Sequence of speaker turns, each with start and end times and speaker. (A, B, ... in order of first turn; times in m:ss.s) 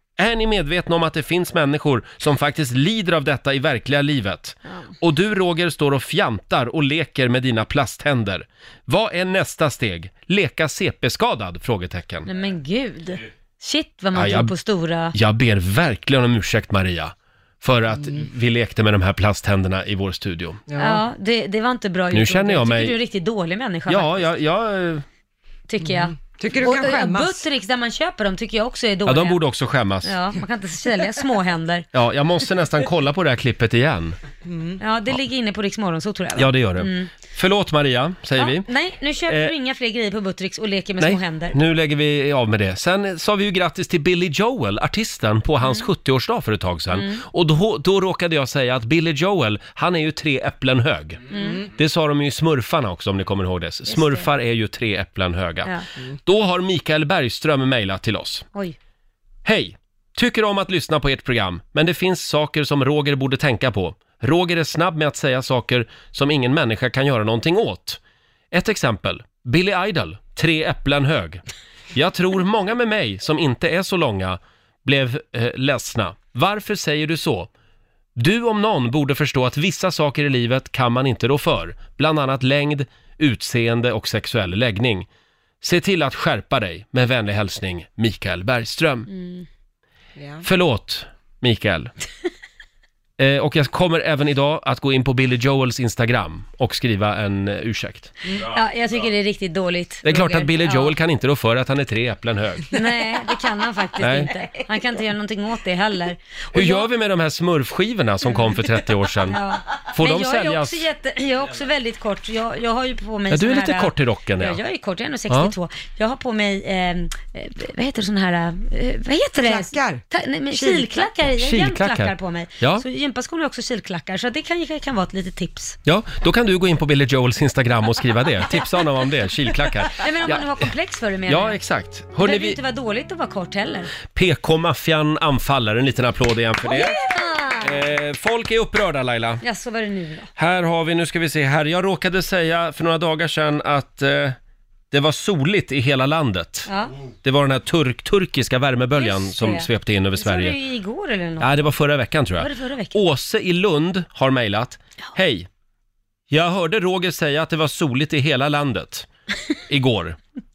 0:00.2-0:12.3 A
0:12.2-0:15.2 B
0:14.1-0:14.5 A
0:15.1-0:20.6 A
0:20.7-0:21.0 C
0:20.8-0:24.3 B
0:22.1-0:23.0 A
0:23.9-0:25.0 A
0:25.7-0:29.4 B
0:25.8-0:27.4 C
0:29.1-0:30.2 A
0:30.0-0:31.9 B
0:31.9-0:34.2 A
0:34.4-0:34.8 C
0:34.8-0:37.1 B
0:36.4-0:38.7 A
0:38.4-0:41.6 B
0:39.3-0:39.6 A
0:41.0-0:55.7 A
0:46.9-0:47.2 B
0:51.3-0:51.7 B
0:51.3-0:51.6 C
0:53.9-0:54.3 B
0:56.3-0:58.5 A
0:59.4-1:08.0 A
1:08.5-1:11.4 A
1:12.0-1:17.5 A
1:18.2-1:25.1 A
1:25.6-1:29.1 A
1:29.1-1:29.5 B
1:30.2-1:30.4 C
1:30.4-1:31.9 A
1:33.2-1:38.1 A
1:38.4-1:41.0 B
1:40.0-1:42.7 A
1:42.7-1:46.9 B
1:44.0-1:44.3 A
1:46.5-1:49.4 A
1:48.3-1:48.6 B
1:49.2-2:05.8 B
1:50.0-1:50.9 A
1:53.3-1:54.6 A
1:55.3-1:55.6 A
1:59.4-2:01.1 C
2:01.4-2:02.8 A
2:05.8-2:10.6 A
2:10.0-2:11.6 B
2:11.3-2:12.6 A
2:12.2-2:13.9 B
2:14.1-2:17.0 A
2:16.6-2:17.8 B
2:17.6-2:19.4 A
2:19.4-2:20.3 B
2:20.4-2:24.4 A
2:24.9-2:26.7 A
2:26.7-2:26.9 B
2:27.2-2:30.6 A
2:29.0-2:31.7 B
2:31.4-2:35.5 A
2:32.4-2:33.0 B
2:36.3-2:39.1 A
2:39.7-2:40.2 A